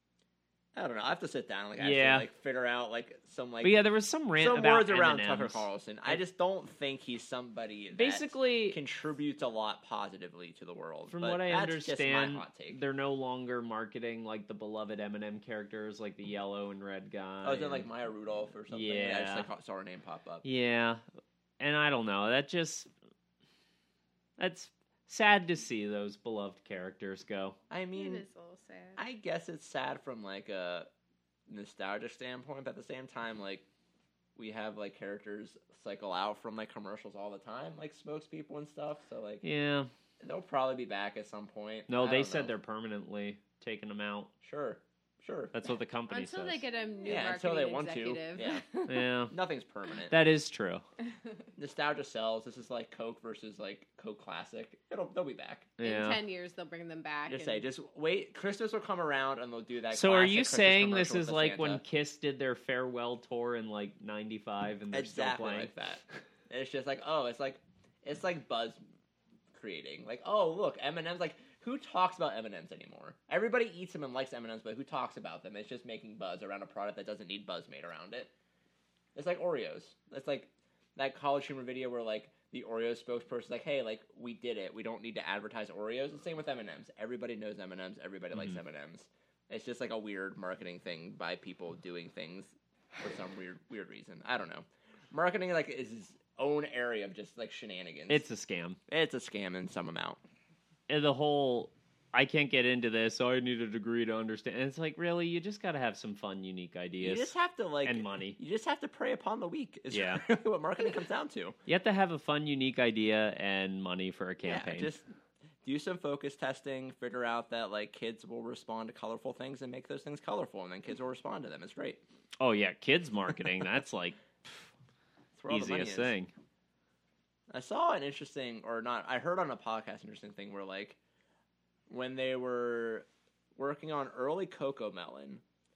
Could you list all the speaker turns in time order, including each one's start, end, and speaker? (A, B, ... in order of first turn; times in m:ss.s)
0:00.8-0:03.8 A
0:01.8-0:02.3 B
0:03.6-0:06.2 B
0:04.4-0:12.8 A
0:07.9-0:08.8 B
0:11.1-0:17.9 B
0:17.4-0:20.4 A
0:18.7-0:19.5 B
0:20.4-0:21.0 B
0:21.6-0:22.9 B
0:24.4-0:27.6 B
0:27.7-0:28.2 A
0:27.9-0:29.0 C
0:29.0-0:30.9 A
0:31.5-0:33.6 A
0:34.4-0:39.4 A
0:39.4-0:39.9 B
0:40.2-0:42.5 A
0:41.9-0:44.3 B
0:44.4-0:45.5 A
0:45.5-0:46.6 B
0:46.1-0:49.1 C
0:47.0-0:48.7 A
0:48.9-0:49.3 B
0:49.3-0:50.2 A
0:50.1-0:50.8 B
0:51.6-0:55.7 A
0:55.8-0:56.2 B
0:55.8-0:57.6 C
0:57.3-1:01.8 A
0:59.9-1:05.7 B
1:04.9-1:08.8 A
1:09.5-1:18.3 A
1:19.2-1:38.2 A
1:38.1-1:38.8 B
1:38.9-1:40.2 A
1:40.9-1:47.3 B
1:47.0-1:51.6 A
1:47.8-1:48.4 B
1:49.9-1:50.2 B
1:51.7-1:54.9 B
1:54.4-1:55.1 A
1:55.6-2:02.0 A
2:02.4-2:04.6 B
2:05.4-2:06.1 A
2:05.5-2:06.3 B
2:07.5-2:11.0 A
2:11.9-2:15.4 A